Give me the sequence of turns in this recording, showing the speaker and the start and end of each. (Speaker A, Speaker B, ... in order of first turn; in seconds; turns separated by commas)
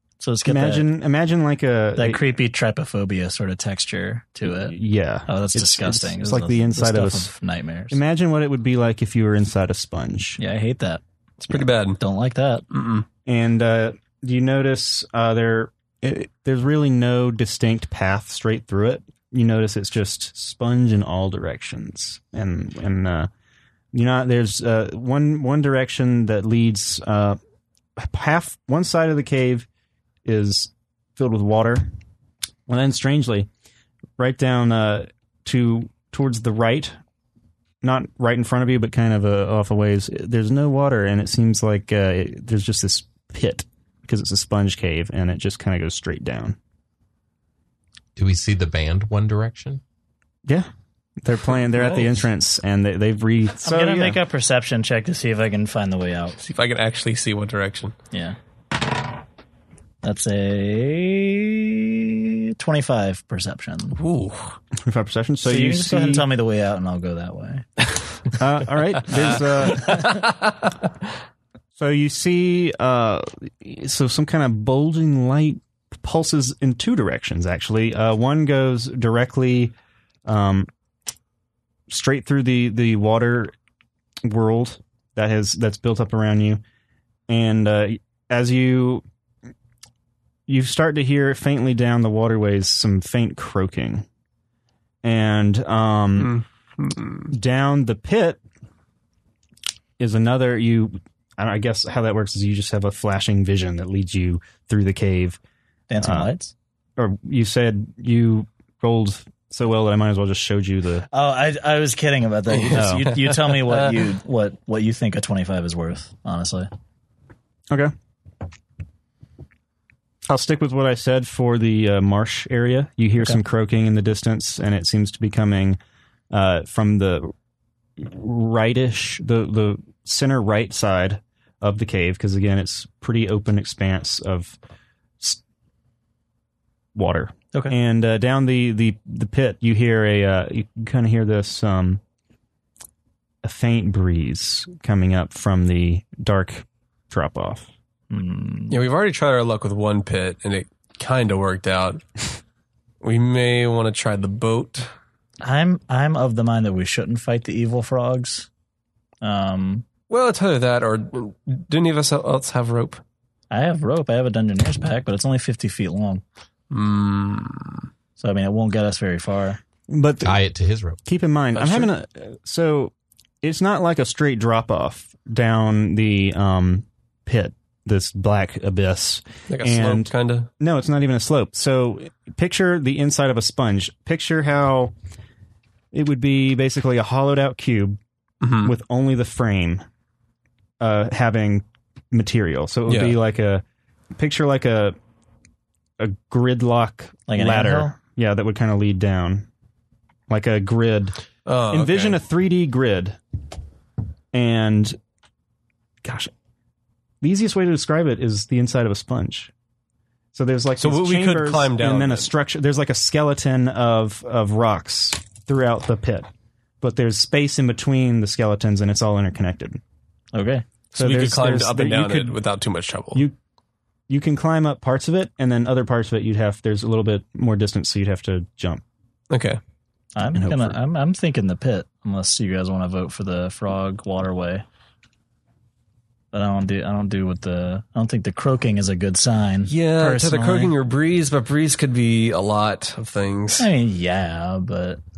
Speaker A: 0.2-0.9, Speaker B: 0.5-2.2, Speaker A: 1.9-4.7, Speaker B: 4.4-7.3, Speaker A: 5.3-8.0, Speaker B: 7.9-10.4, Speaker A: 10.4-11.0, Speaker C: 11.4-12.0, Speaker A: 12.0-12.7, Speaker C: 12.7-13.1, Speaker B: 13.2-23.3, Speaker B: 23.9-27.4, Speaker B: 28.0-29.7, Speaker B: 30.2-31.9, Speaker B: 32.7-33.5, Speaker B: 34.2-37.0, Speaker B: 37.8-46.5, Speaker D: 48.1-49.8, Speaker B: 51.2-54.2, Speaker A: 53.6-56.4, Speaker C: 56.4-57.9, Speaker A: 58.1-58.4, Speaker A: 60.0-64.0, Speaker C: 64.0-64.5, Speaker B: 64.8-66.3, Speaker A: 65.4-67.7, Speaker B: 68.4-70.2, Speaker C: 69.2-70.6, Speaker B: 71.8-79.7, Speaker B: 80.2-80.7, Speaker B: 81.9-83.5, Speaker B: 84.2-86.6, Speaker B: 87.3-89.0, Speaker B: 90.5-94.0, Speaker B: 95.0-96.4, Speaker C: 96.2-97.3, Speaker B: 97.3-98.4, Speaker B: 100.0-105.4, Speaker A: 105.9-106.5, Speaker B: 106.0-106.3, Speaker B: 107.0-111.1, Speaker A: 111.1-116.7, Speaker C: 112.5-114.0, Speaker B: 112.7-113.1, Speaker B: 120.3-125.8, Speaker B: 126.3-127.3, Speaker B: 128.0-134.6, Speaker B: 136.9-142.0, Speaker B: 143.4-147.7, Speaker A: 148.1-148.8, Speaker C: 148.7-152.0, Speaker C: 153.0-154.9, Speaker A: 155.4-158.5, Speaker A: 159.2-159.8, Speaker C: 160.1-163.0, Speaker A: 163.5-166.2, Speaker C: 166.7-167.9, Speaker A: 168.2-169.6, Speaker B: 169.9-170.4, Speaker D: 170.2-171.0, Speaker B: 171.0-184.9, Speaker C: 171.5-171.9, Speaker C: 179.5-180.5, Speaker B: 185.9-188.0, Speaker C: 188.4-188.7, Speaker B: 188.6-189.8, Speaker B: 190.8-193.6, Speaker C: 192.9-193.2, Speaker B: 194.2-194.9, Speaker B: 196.0-199.5, Speaker A: 197.3-197.9, Speaker B: 200.3-201.2, Speaker C: 201.4-202.2, Speaker B: 201.7-203.2, Speaker B: 204.3-205.0, Speaker B: 206.0-206.3, Speaker B: 207.2-209.5, Speaker B: 210.3-216.3, Speaker C: 210.8-212.3, Speaker B: 216.8-219.8, Speaker A: 220.3-220.6, Speaker C: 220.9-223.2, Speaker B: 220.9-222.4, Speaker B: 224.1-228.8, Speaker C: 229.3-229.6, Speaker A: 230.2-234.6, Speaker B: 230.3-230.8, Speaker A: 236.3-240.7, Speaker C: 239.7-243.7, Speaker A: 243.6-245.0